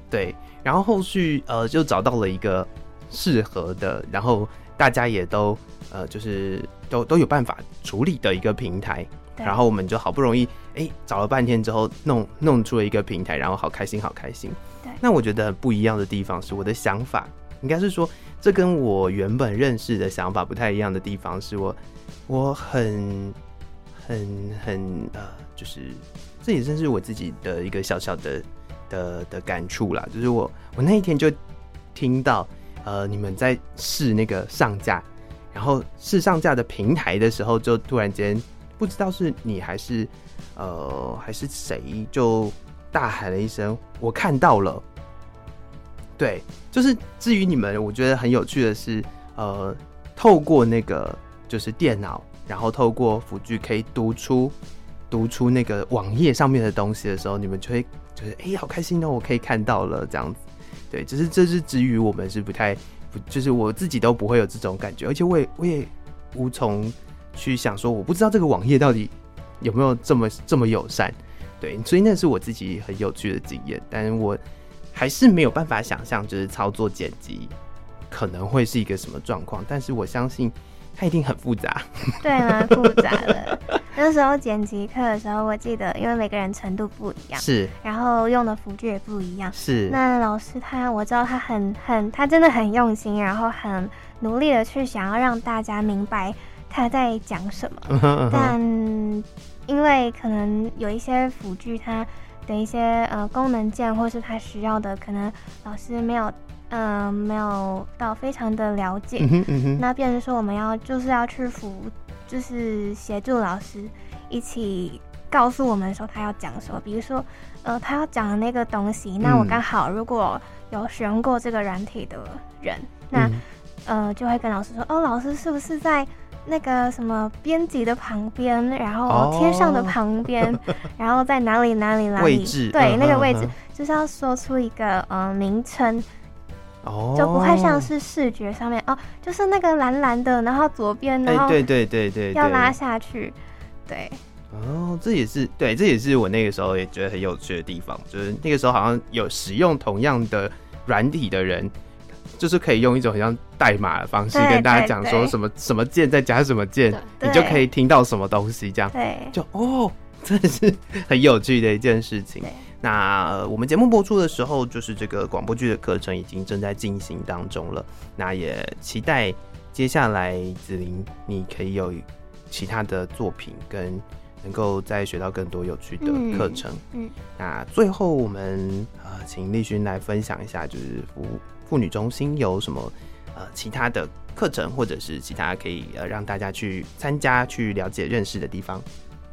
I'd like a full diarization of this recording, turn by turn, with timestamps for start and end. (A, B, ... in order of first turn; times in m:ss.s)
0:00.1-0:23.4 A
0:09.4-0:09.6 B
0:24.0-0:31.4 A
0:31.9-0:44.8 A
0:46.2-0:54.5 A
0:55.1-1:14.4 A
1:14.9-1:17.5 A
1:18.1-1:23.4 A
1:22.2-2:16.1 B
1:27.4-1:27.7 A
1:29.5-1:30.0 A
1:37.9-1:38.6 A
1:49.2-1:49.8 A
1:59.2-1:59.6 A
2:03.1-2:03.4 A
2:09.1-2:10.0 A
2:12.2-2:13.5 A
2:16.8-2:17.9 A
2:17.2-2:21.6 B
2:21.3-2:22.8 A
2:22.3-2:23.4 B
2:23.9-2:24.2 B
2:24.5-2:31.7 A
2:32.4-2:56.8 A
2:34.3-2:35.4 B
2:37.2-2:37.6 B
2:38.9-2:39.4 B
2:56.0-2:57.1 B
2:57.4-3:08.9 A